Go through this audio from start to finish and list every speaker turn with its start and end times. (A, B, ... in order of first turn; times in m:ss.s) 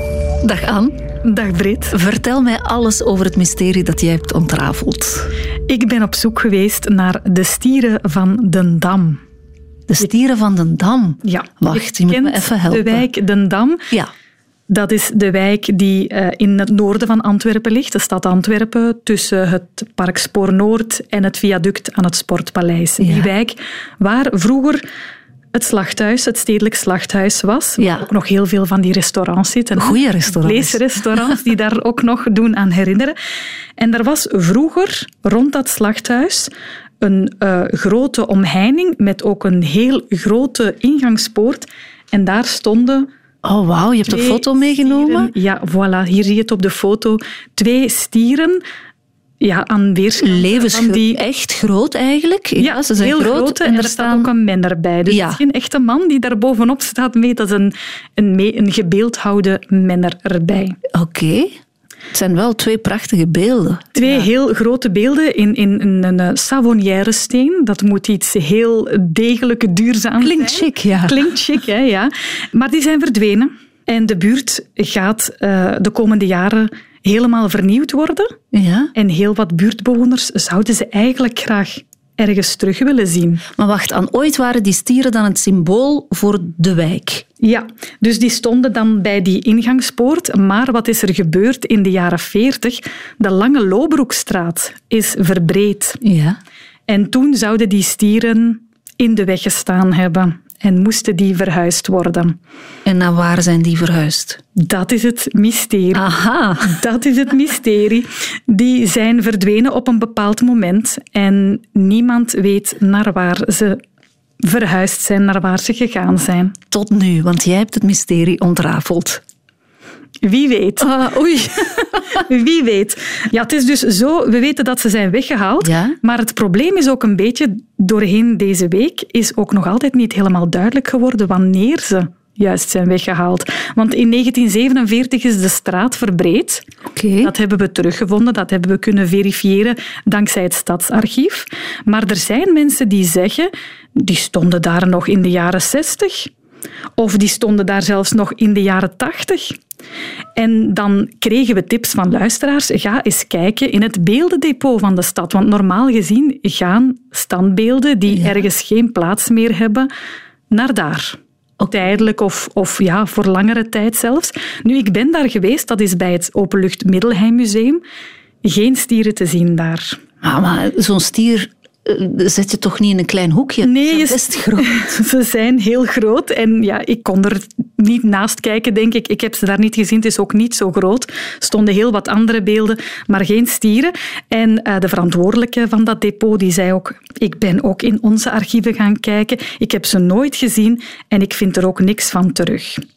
0:00.4-0:00.9 A
0:01.2-0:02.0 B
0:01.9-0:05.3 A
0:05.7-0:09.2 B
0:09.9-0:13.1 A
0:11.2-0:13.9 B
0:14.7-0:24.8 B
0:23.0-0:23.3 A
0:25.5-0:33.2 B
0:27.8-0:28.1 A
0:29.8-0:31.4 A
0:33.8-0:43.1 B
0:43.4-0:45.3 A
0:44.1-0:48.6 B
0:49.4-0:51.2 B
0:50.2-0:54.3 A
0:52.6-1:00.8 B
0:55.1-0:55.4 A
1:00.9-1:01.5 A
1:02.1-1:04.3 A
1:04.0-1:18.3 B
1:10.2-1:11.2 A
1:18.5-1:18.9 A
1:19.0-1:23.4 B
1:23.6-1:27.2 A
1:27.4-1:36.0 B
1:36.0-1:36.4 A
1:36.9-1:42.4 B
1:42.8-1:44.4 A
1:44.6-1:46.1 B
1:45.9-1:46.8 A
1:46.6-1:53.8 B
1:54.4-1:56.6 B
1:56.7-1:59.2 A
2:00.2-2:01.0 B
2:00.8-2:02.0 A
2:02.1-2:16.6 B
2:05.6-2:06.0 A
2:16.9-2:17.3 A
2:17.2-2:26.3 B
2:27.0-2:29.6 B
2:30.4-2:39.9 B
2:38.1-2:38.4 A
2:40.5-2:41.2 B
2:41.7-2:47.8 B
2:48.4-2:50.0 B
2:50.2-2:55.0 A
2:53.6-3:12.8 B